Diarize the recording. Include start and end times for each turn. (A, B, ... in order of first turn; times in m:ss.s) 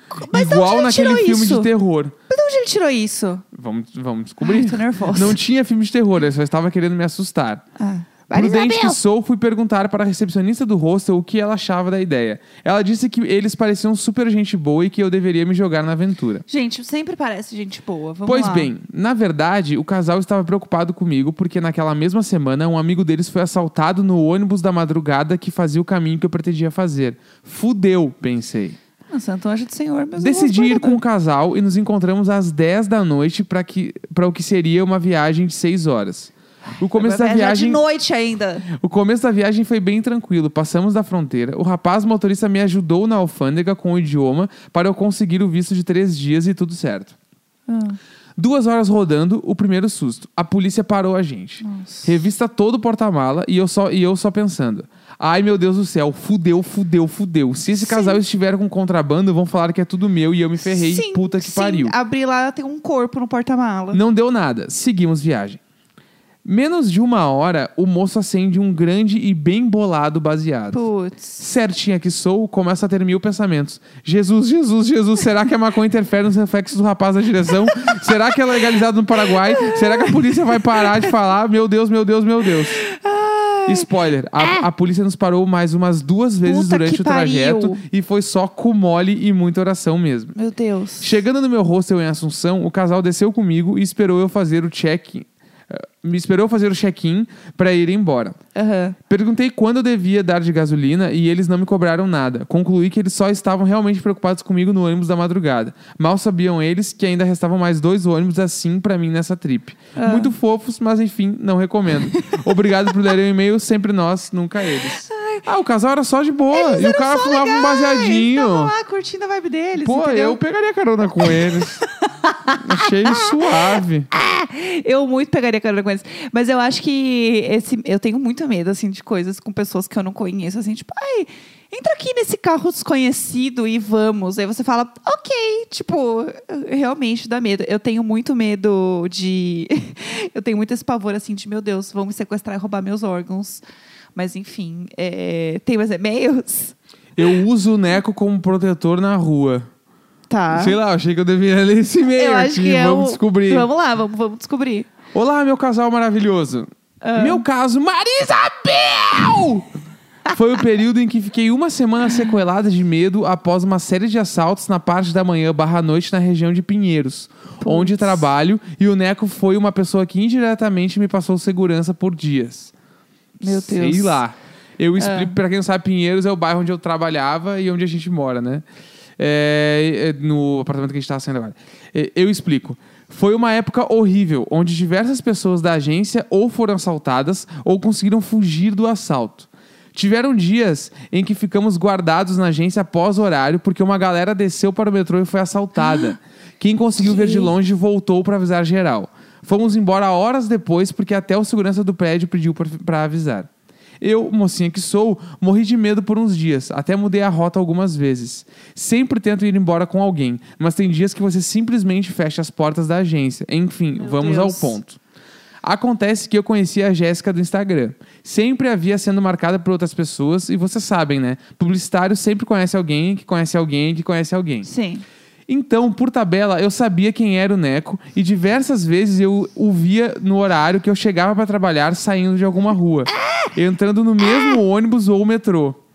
0:00.2-0:01.7 A
0:00.3-0:02.1 B
0:02.3-0:03.4 A
0:03.5-0:07.6 B
0:04.4-0:05.4 A
0:07.8-0:09.0 A
0:08.3-0:16.4 B
0:16.5-0:18.7 A
0:18.2-0:28.8 B
0:29.1-0:31.0 A
0:30.2-0:37.8 B
0:36.9-0:38.6 A
0:38.7-0:47.1 B
0:47.7-0:48.0 A
0:48.4-1:01.9 B
0:51.6-0:52.1 A
0:57.8-0:58.2 A
1:00.6-1:04.0 A
1:03.9-1:05.6 B
1:06.4-1:10.8 B
1:10.7-1:11.4 A
1:11.4-1:22.8 B
1:19.2-1:21.1 A
1:22.8-1:23.9 A
1:23.7-1:30.3 B
1:26.4-1:27.8 A
1:30.4-1:31.1 A
1:31.0-1:38.4 B
1:38.5-1:39.0 A
1:39.1-1:58.7 B
1:50.0-1:50.3 A
1:55.1-1:55.4 A
1:56.5-2:00.4 A
1:59.8-2:01.8 B
2:02.0-2:03.4 A
2:02.5-2:04.1 B
2:04.1-2:23.6 A
2:24.1-2:26.8 A
2:27.2-2:29.7 B
2:30.3-2:30.8 A
2:30.5-2:33.7 B
2:32.1-2:34.9 A
2:35.1-2:39.7 B
2:37.0-2:37.4 A
2:40.3-2:52.7 B
2:47.6-2:48.2 A
2:53.4-2:54.2 A
2:53.4-2:58.6 B
2:55.0-2:55.3 A
2:59.2-3:23.5 B
3:17.0-3:17.5 A
3:24.0-3:35.0 B
3:34.0-3:34.8 A
3:35.6-3:44.7 B
3:44.6-3:45.0 A
3:45.5-3:55.8 B